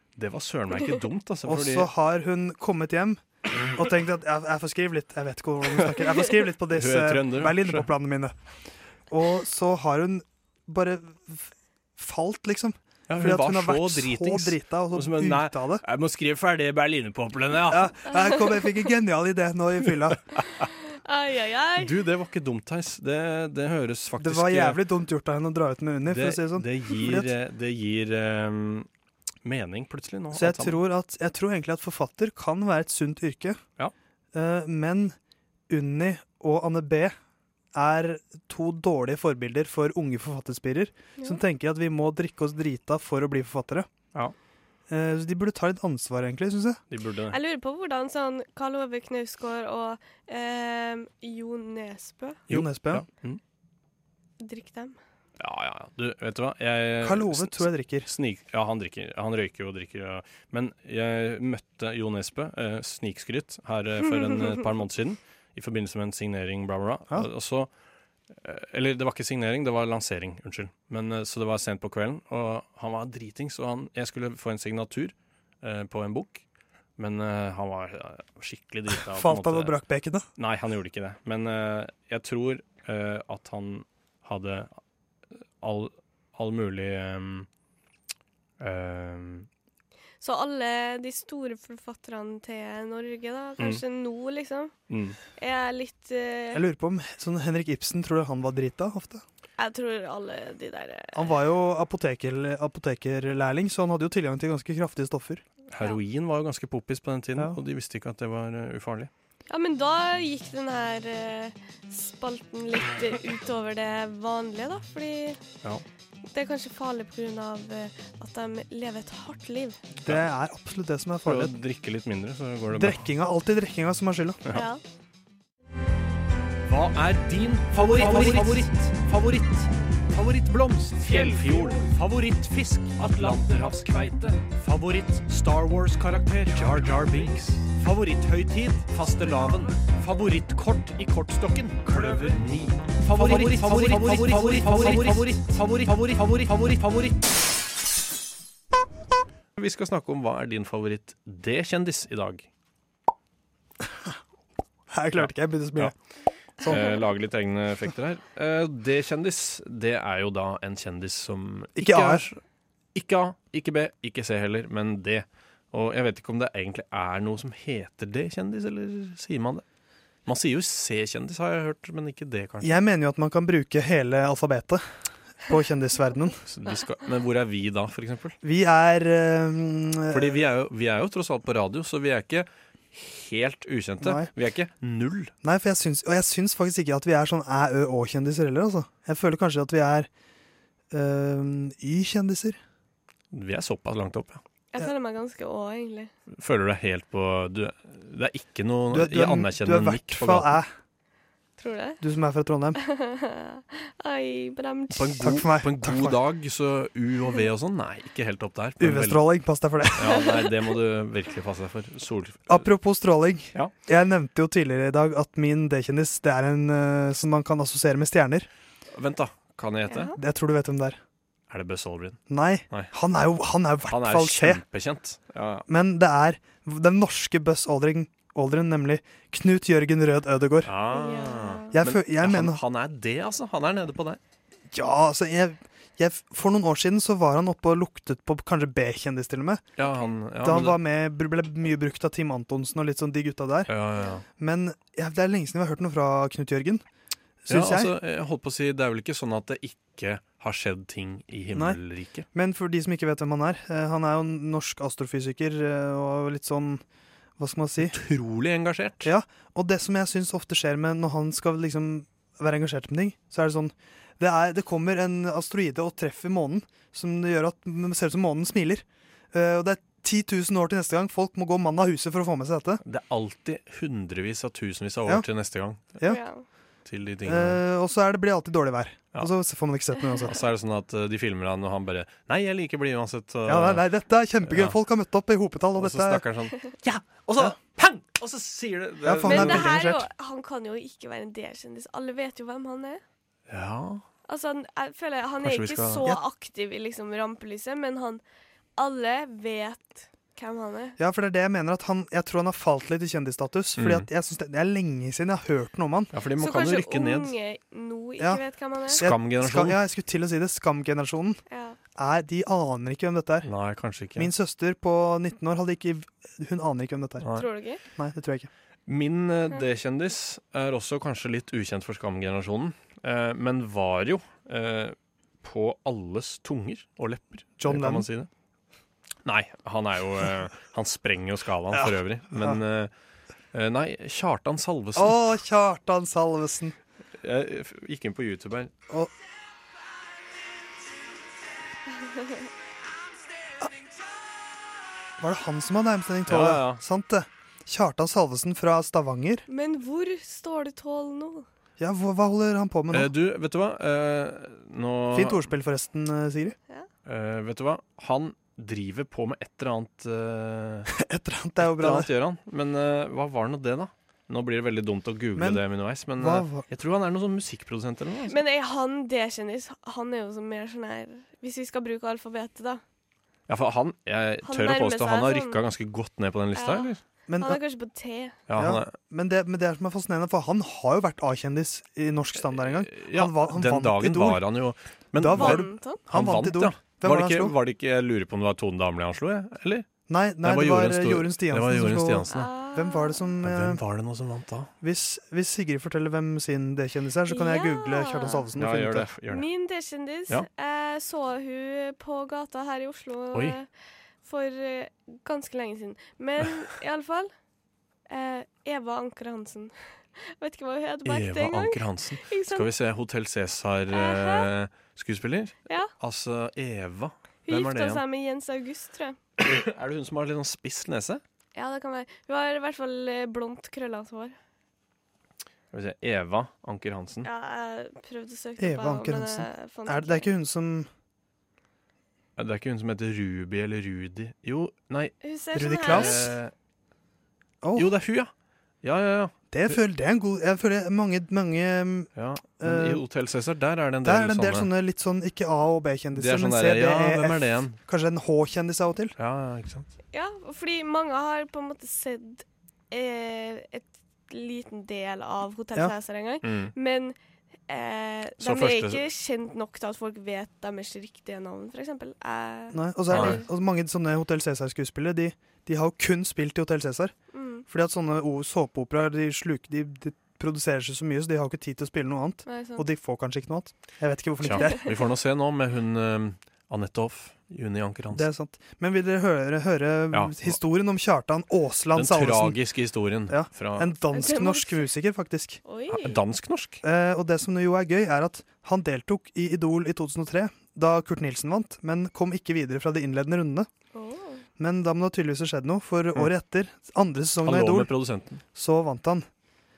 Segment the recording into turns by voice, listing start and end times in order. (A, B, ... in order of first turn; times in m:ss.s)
0:00.2-0:01.9 A
0:01.5-0:08.4 B
0:06.7-0:07.9 A
0:09.1-0:15.8 B
0:13.1-0:18.0 A
0:17.7-0:20.2 B
0:18.1-0:18.6 C
0:21.0-0:22.0 C
0:21.8-0:24.8 A
0:24.2-0:27.3 B
0:26.1-0:28.9 A
0:29.4-0:30.8 A
0:30.3-0:33.6 B
0:34.3-0:35.2 B
0:35.7-0:37.2 B
0:37.7-0:43.9 B
0:44.9-0:46.8 B
0:46.9-0:47.4 A
0:47.3-0:52.4 C
0:52.5-0:53.0 B
0:52.5-0:53.4 A
0:54.4-0:55.0 C
0:55.4-1:07.7 A
0:57.0-0:58.1 B
1:08.3-1:16.4 A
1:17.0-1:19.8 A
1:19.1-1:20.3 B
1:20.4-1:24.7 A
1:25.6-1:27.5 A
1:28.6-1:29.5 A
1:30.2-1:34.7 C
1:34.9-1:35.2 A
1:35.4-1:36.6 C
1:36.5-1:39.2 B
1:39.6-1:41.3 C
1:41.1-1:45.4 B
1:45.7-1:49.1 A
1:49.5-1:55.4 C
1:56.3-1:59.8 C
2:00.1-2:01.6 B
2:01.2-2:03.0 A
2:02.7-2:04.4 B
2:04.5-2:04.8 C
2:06.7-2:27.2 A
2:29.6-2:32.5 A
2:34.9-2:35.9 B
2:36.6-2:36.9 B
2:36.6-2:42.4 A
2:41.8-2:42.2 B
2:43.0-2:49.6 A
2:50.3-2:52.8 A
2:52.6-2:54.8 B
2:55.4-2:56.4 B
2:56.5-2:58.4 A
2:58.4-3:00.4 B
3:00.1-3:05.3 A
3:04.0-3:04.3 B
3:05.4-3:10.1 B
3:10.9-3:12.6 B
3:13.3-3:14.4 A
3:14.7-3:16.1 C
3:16.4-3:20.5 A
3:18.9-3:20.7 B
3:21.6-3:22.0 C
3:22.0-3:22.8 B
3:22.8-3:25.2 C
3:24.9-3:29.2 A
3:25.2-3:26.2 B
3:28.8-3:30.3 B
3:30.0-3:32.6 A
3:32.5-3:38.5 B
3:39.0-3:40.2 A
3:39.9-3:40.2 C
3:40.2-3:41.0 B
3:41.5-3:42.9 A
3:42.3-3:44.6 B
3:43.9-3:45.6 A
3:45.7-3:50.7 B
3:50.6-3:54.2 A
3:50.9-3:51.7 C
3:51.7-3:52.6 B
3:54.7-3:59.7 B
3:59.8-4:00.8 A
3:59.9-4:00.1 C
4:00.4-4:03.7 B
4:03.7-4:04.2 A
4:04.4-4:06.8 B
4:07.4-4:07.9 B
4:07.5-4:12.3 A
4:11.5-4:11.8 B
4:12.3-4:16.8 B
4:17.4-4:18.0 B
4:17.8-4:19.1 A
4:19.0-4:32.8 B
4:32.8-4:36.0 A
4:36.0-4:36.5 C
4:36.9-4:37.6 A
4:37.2-4:40.4 B
4:40.3-4:43.8 A
4:43.5-4:46.2 B
4:44.5-4:44.8 A
4:45.8-4:49.7 A
4:49.0-4:50.1 B
4:49.2-4:53.0 C
4:53.5-4:54.0 A
4:54.3-4:58.2 C
4:55.4-4:56.1 A
4:58.8-5:01.0 C
5:01.0-5:06.1 B
5:03.8-5:04.1 A
5:06.1-5:07.4 A
5:06.4-5:09.0 C
5:08.9-5:09.8 A
5:09.0-5:11.4 B
5:11.5-5:11.8 C
5:12.0-5:13.5 B
5:13.4-5:14.3 A
5:14.2-5:17.3 B
5:17.2-5:17.5 A
5:17.3-5:17.8 C
5:18.0-5:18.5 B
5:18.9-5:28.3 A
5:27.6-5:28.1 B
5:29.2-5:32.9 A
5:31.7-5:32.6 B
5:33.5-5:35.2 A
5:35.0-5:36.8 B
5:37.2-5:38.7 A
5:45.2-5:49.4 B
5:46.3-5:46.8 A
5:49.5-5:51.5 C
5:51.8-5:53.1 B
5:52.9-5:55.4 A
5:55.1-5:56.6 B
5:57.0-6:00.9 A
6:00.9-6:02.1 B
6:01.6-6:08.4 A
6:05.4-6:05.6 B
6:06.2-6:06.7 B
6:08.3-6:12.8 C
6:13.5-6:17.0 A
6:14.4-6:15.6 C
6:16.5-6:18.4 C
6:17.3-6:17.6 B
6:18.5-6:18.9 A
6:18.6-6:24.4 B
6:22.7-6:29.9 A
6:25.2-6:27.6 B
6:25.3-6:26.0 C
6:30.1-6:33.8 B
6:30.4-6:32.5 A
6:32.3-6:33.3 C
6:33.4-6:34.7 A
6:34.8-6:39.1 B
6:37.3-6:38.5 C
6:38.6-6:39.5 A
6:39.3-6:43.7 C
6:43.3-6:43.6 A
6:44.2-6:47.3 C
6:48.1-6:52.7 C
6:51.0-6:58.0 A
6:53.9-6:54.5 C
6:57.5-6:59.2 C
6:59.4-7:01.2 A
7:01.6-7:04.4 C
7:05.7-7:07.3 A
7:07.2-7:10.3 C
7:08.6-7:10.9 B
7:12.4-7:16.5 A
7:15.2-7:16.3 C
7:15.6-7:16.3 B
7:17.6-7:17.9 B
7:17.8-7:18.3 A
7:18.8-7:19.8 A
7:19.5-7:23.0 B
7:22.2-7:24.7 A
7:24.0-7:29.2 B
7:26.1-7:27.8 A
7:29.2-7:29.9 A
7:30.1-7:37.2 C
7:36.4-7:36.7 A
7:37.7-7:43.4 C
7:38.4-7:39.0 A
7:42.7-7:47.1 B
7:43.1-7:43.4 A
7:47.3-7:47.6 C
7:47.7-7:54.9 B
7:52.4-7:52.8 C
7:54.4-7:58.3 A
7:58.1-8:02.6 B
8:00.1-8:00.6 A
8:02.0-8:03.9 A
8:03.3-8:05.6 B
8:04.1-8:04.9 C
8:05.6-8:06.2 C
8:05.9-8:06.8 A
8:06.8-8:13.7 B
8:13.9-8:14.4 C
8:14.6-8:17.9 B
8:17.4-8:18.4 A
8:18.5-8:19.3 B